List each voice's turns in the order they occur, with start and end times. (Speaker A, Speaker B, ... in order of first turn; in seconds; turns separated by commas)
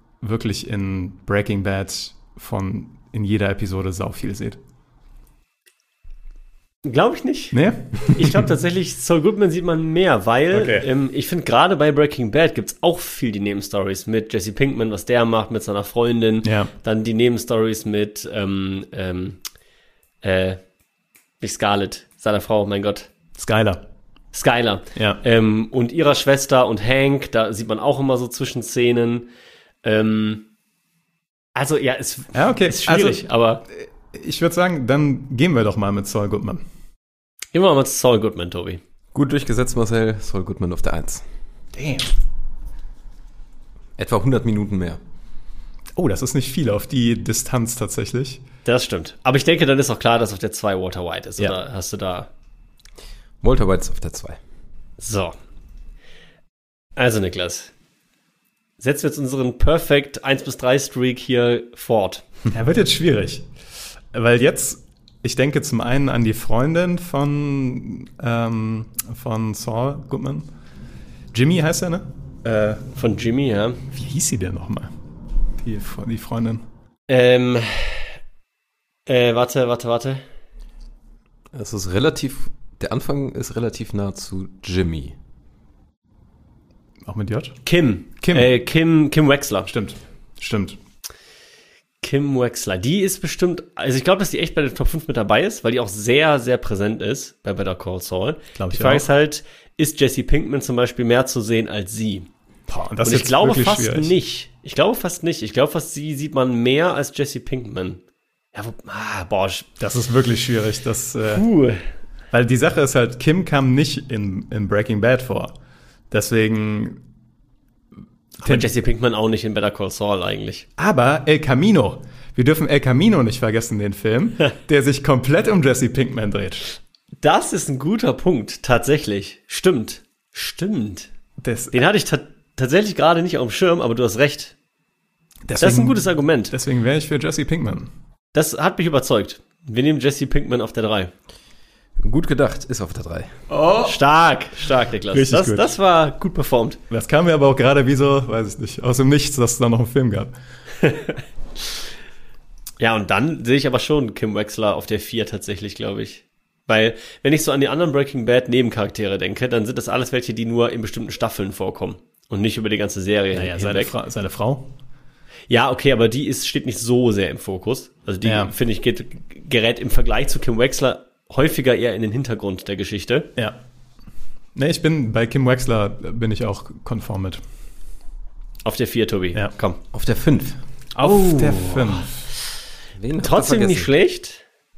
Speaker A: 0.2-4.6, Speaker B: 6.8-19.4, Speaker A: 7.5-8.5, Speaker A: 10.5-10.8, Speaker A: 16.4-16.7, Speaker B: 20.2-20.6, Speaker B: 21.4-23.1, Speaker A: 23.4-23.8, Speaker B: 24.3-29.3, Speaker A: 24.9-25.2, Speaker B: 29.8-30.4, Speaker B: 31.5-33.6, Speaker A: 32.3-33.2, Speaker A: 33.8-36.6, Speaker B: 37.5-38.8, Speaker C: 39.1-41.2, Speaker A: 41.7-42.1, Speaker C: 44.0-45.0, Speaker A: 46.0-48.4, Speaker B: 48.6-52.3, Speaker C: 53.4-54.4, Speaker B: 55.0-55.4, Speaker B: 57.0-57.7, Speaker B: 58.8-62.2, Speaker A: 62.5-63.5, Speaker A: 64.1-70.5, Speaker A: 71.3-72.8, Speaker B: 73.0-73.8, Speaker A: 73.9-74.9, Speaker A: 75.6-76.6, Speaker B: 77.1-78.2, Speaker B: 79.0-80.2, Speaker C: 81.5-85.2, Speaker A: 87.0-87.6, Speaker B: 87.7-89.7, Speaker A: 88.2-88.5, Speaker A: 89.7-90.8, Speaker B: 92.0-102.3, Speaker A: 98.5-99.0, Speaker A: 102.7-104.1, Speaker B: 103.0-108.0, Speaker B: 108.5-109.7, Speaker A: 109.8-111.4, Speaker B: 111.2-111.8, Speaker A: 112.3-115.5, Speaker A: 116.1-117.0, Speaker B: 118.4-120.7, Speaker A: 118.4-118.7, Speaker A: 120.8-126.7, Speaker B: 127.2-131.1, Speaker A: 131.4-131.8, Speaker B: 131.7-134.5, Speaker A: 135.5-137.9, Speaker B: 135.6-136.5, Speaker B: 138.3-141.1, Speaker C: 142.0-143.3, Speaker A: 143.5-144.0, Speaker B: 143.8-146.8, Speaker A: 145.1-145.7, Speaker A: 146.9-150.3, Speaker B: 150.8-151.1, Speaker B: 152.8-163.9, Speaker A: 163.3-164.7, Speaker B: 165.5-173.3, Speaker A: 168.2-168.5, Speaker A: 174.6-177.4, Speaker B: 178.6-179.8, Speaker C: 179.9-180.6, Speaker A: 180.9-182.1, Speaker B: 181.0-182.1, Speaker C: 183.0-183.9, Speaker B: 183.2-184.4